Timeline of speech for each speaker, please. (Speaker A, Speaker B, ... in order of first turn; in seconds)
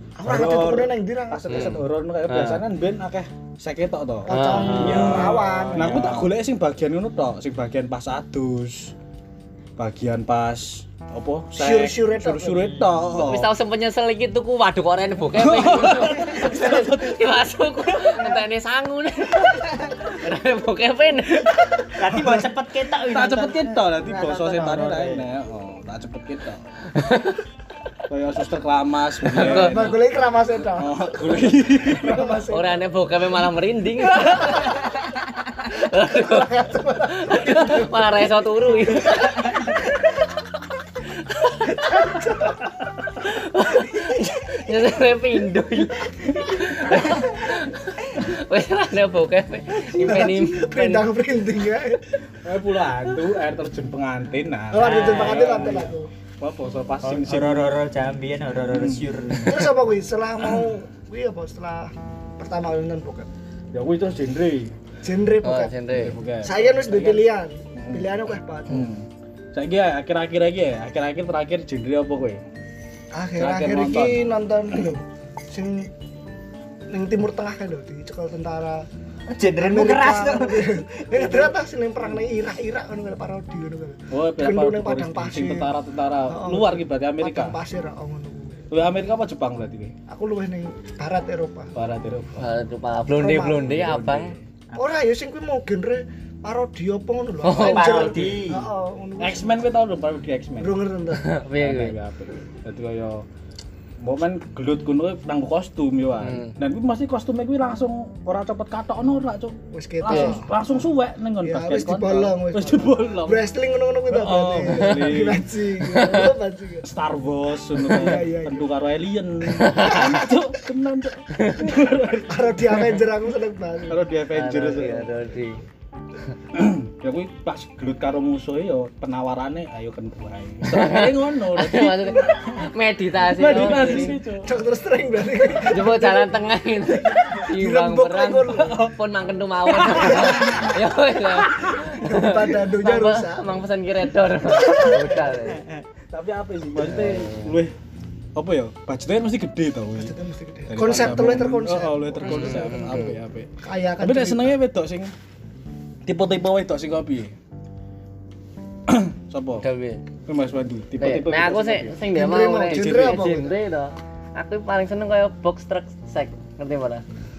Speaker A: 0.2-1.6, 4.2-6.2, 11.5-12.8, 16.5-16.8, 29.4-31.2, 31.9-32.8, 36.1-38.1, 39.0-39.7, 41.7-42.6, 49.8-52.1, 54.7-56.1, 59.5-63.3, 65.0-65.7, 66.4-68.9, 73.1-75.9, 76.9-78.8, 79.6-85.7, 86.3-88.6, 90.1-91.7, 93.1-93.9, 94.8-99.5, 100.6-101.3, 109.7-110.5, 111.4-116.8, 117.8-118.7, 122.3-124.0, 133.7-136.3, 137.1-138.8, 141.9-143.6, 144.5-145.4, 150.0-153.1, 153.6-154.6, 162.1-163.5
Speaker B: 0.2-8.9, 9.8-13.5, 15.3-17.2, 23.0-26.6, 28.1-30.1, 30.7-32.4, 52.4-57.8, 58.7-59.5, 63.7-64.7, 65.9-67.2, 67.8-68.1, 68.7-72.4, 73.4-74.3, 84.1-87.6, 88.7-89.9, 91.7-92.5, 93.5-94.4, 99.2-100.8, 101.5-103.2, 104.0-113.5, 114.1-115.5, 116.8-123.0, 123.9-125.1, 126.5-132.6, 133.3-134.5, 138.6-138.9, 139.7-140.7, 141.4-141.7, 146.1-147.7, 148.3-150.1, 150.7-155.1, 156.0-157.3, 158.9-159.6, 160.2-162.0, 162.7-163.3
Speaker C: 1.5-2.6, 4.3-5.3, 13.2-21.6, 26.9-27.4, 29.3-29.9, 32.5-34.7, 35.6-39.6, 41.5-42.2, 43.1-51.0, 65.4-66.2, 92.4-94.3, 97.4-98.3, 101.2-102.0, 106.2-106.5, 110.1-110.4, 115.9-116.3, 119.5-120.1, 121.3-121.7, 124.3-125.6, 130.6-134.2, 135.7-145.6, 146.8-147.6, 152.2-153.2, 159.6-160.0, 161.0-167.0
Speaker D: 4.8-6.2, 21.9-25.3, 54.8-55.9, 57.0-59.8, 79.3-81.5, 97.6-98.7, 145.4-145.8